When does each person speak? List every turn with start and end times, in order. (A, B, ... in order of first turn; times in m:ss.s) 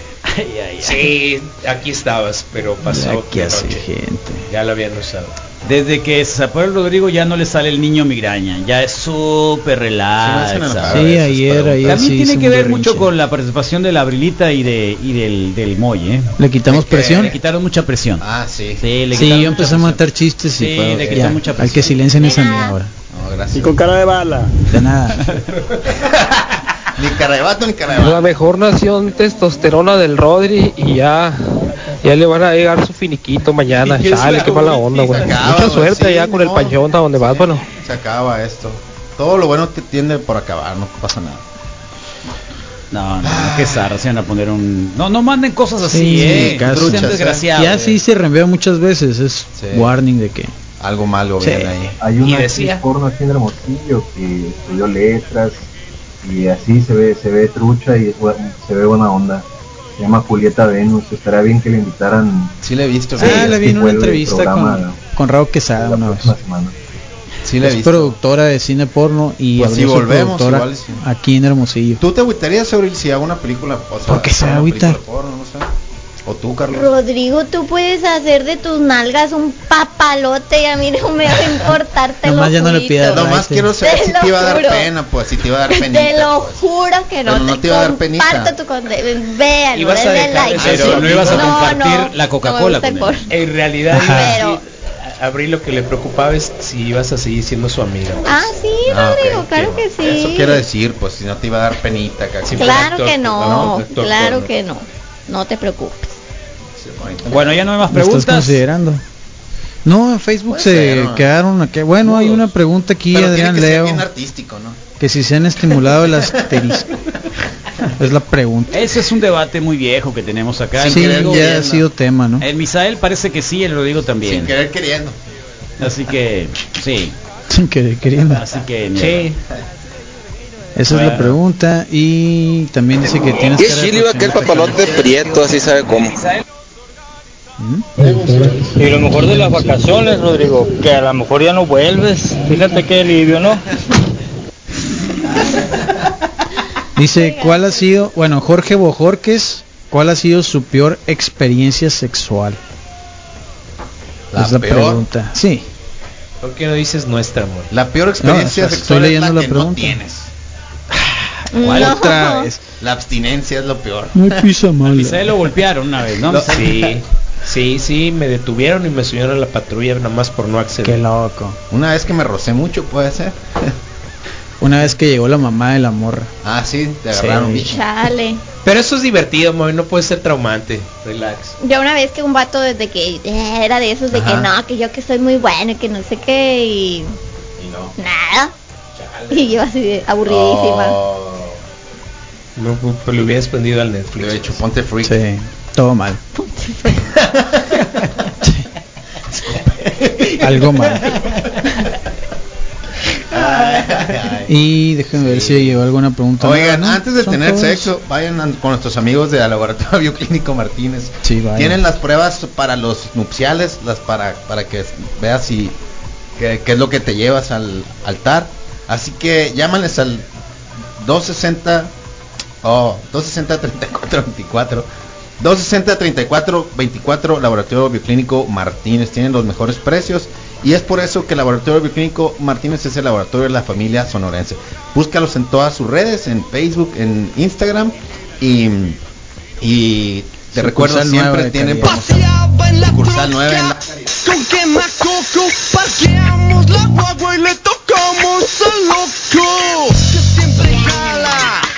0:00.2-0:01.1 A
0:00.8-0:03.8 B
0:02.8-0:04.5 C
0:04.5-0:05.3 B
0:05.6-0:11.1 A
0:10.2-0:12.0 D
0:10.9-0:13.1 C
0:11.8-0:16.4 A
0:16.4-0:17.3 C
0:16.7-0:17.3 D
0:17.0-0:18.2 A
0:18.2-0:18.8 D
0:18.8-0:20.0 A
0:19.1-0:22.9 C
0:20.5-0:22.1 A
0:22.2-0:22.7 E
0:23.1-0:23.8 D
0:23.5-0:24.5 F
0:24.7-0:25.3 C
0:26.9-0:28.3 D
0:27.9-0:37.6 G
0:33.8-0:35.4 B
0:35.1-0:41.4 D
0:42.9-0:48.0 A
0:43.2-0:44.0 D
0:45.8-0:50.5 C
0:46.2-0:47.4 D
0:49.5-0:49.9 D
0:50.8-0:51.9 D
0:51.4-0:51.9 C
0:52.0-0:55.7 H
0:52.2-0:52.8 B
0:56.2-0:59.4 H
1:00.0-1:02.5 H
1:02.6-1:03.7 D
1:03.1-1:06.3 C
1:03.2-1:03.5 A
1:03.2-1:05.0 H
1:05.7-1:06.9 H
1:07.4-1:08.2 D
1:07.6-1:12.0 C
1:09.6-1:11.0 D
1:12.0-1:15.7 D
1:14.1-1:15.0 C
1:16.2-1:16.9 D
1:16.7-1:23.3 E
1:22.2-1:23.7 C
1:23.1-1:26.6 D
1:23.8-1:24.9 E
1:25.7-1:33.3 E
1:27.2-1:28.5 D
1:29.7-1:31.6 B
1:30.6-1:33.2 A
1:33.3-1:38.5 B
1:33.9-1:34.4 C
1:33.9-1:34.6 E
1:38.2-1:40.6 E
1:38.8-1:43.8 D
1:42.4-1:44.5 B
1:42.6-1:46.1 E
1:46.8-1:47.6 D
1:47.3-1:48.6 A
1:47.9-1:49.0 C
1:49.8-1:54.0 C
1:50.5-1:51.2 D
1:53.1-1:54.8 D
1:55.0-1:56.9 C
1:58.0-1:58.7 C
1:58.7-2:01.4 A
2:00.8-2:01.8 D
2:00.9-2:02.4 C
2:02.4-2:04.5 A
2:04.2-2:05.2 D
2:05.8-2:07.1 A
2:07.5-2:08.4 C
2:08.3-2:09.3 A
2:09.0-2:09.4 B
2:10.8-2:15.0 C
2:10.9-2:11.3 A
2:13.5-2:16.2 I
2:17.6-2:17.8 C
2:18.8-2:23.6 F
2:27.0-2:32.6 C
2:27.1-2:27.9 E
2:34.3-2:35.0 D
2:34.3-2:35.6 C
2:36.4-2:37.7 B
2:37.7-2:40.3 D
2:38.2-2:40.0 C
2:41.0-2:42.6 C
2:41.5-2:42.5 E
2:41.7-2:41.9 D
2:42.8-2:44.4 D
2:44.1-2:45.3 C
2:44.9-2:46.9 A
2:46.2-2:47.0 D
2:46.5-2:51.0 B
2:50.8-2:51.6 C
2:51.7-2:53.7 D
2:54.6-2:56.3 C
2:56.4-2:57.8 D
2:57.1-2:57.5 B
2:57.4-2:58.4 E
2:58.6-3:01.6 B
3:01.6-3:07.1 E
3:04.1-3:04.5 D
3:07.6-3:07.9 D
3:08.0-3:08.5 E
3:09.0-3:09.5 B
3:09.3-3:11.0 E
3:10.2-3:11.6 D
3:12.6-3:14.6 B
3:14.2-3:15.2 D
3:15.0-3:16.2 C
3:16.4-3:17.1 E
3:19.3-3:20.8 D
3:20.4-3:21.2 C
3:23.3-3:24.5 D
3:24.5-3:27.9 C
3:25.1-3:25.8 D
3:26.4-3:35.8 D
3:31.2-3:31.8 C
3:36.4-3:40.3 D
3:41.0-3:41.9 D
3:42.6-3:44.9 D
3:45.4-3:59.0 D
3:59.6-4:04.1 D
4:00.5-4:02.0 C
4:02.0-4:03.0 J
4:04.2-4:11.6 J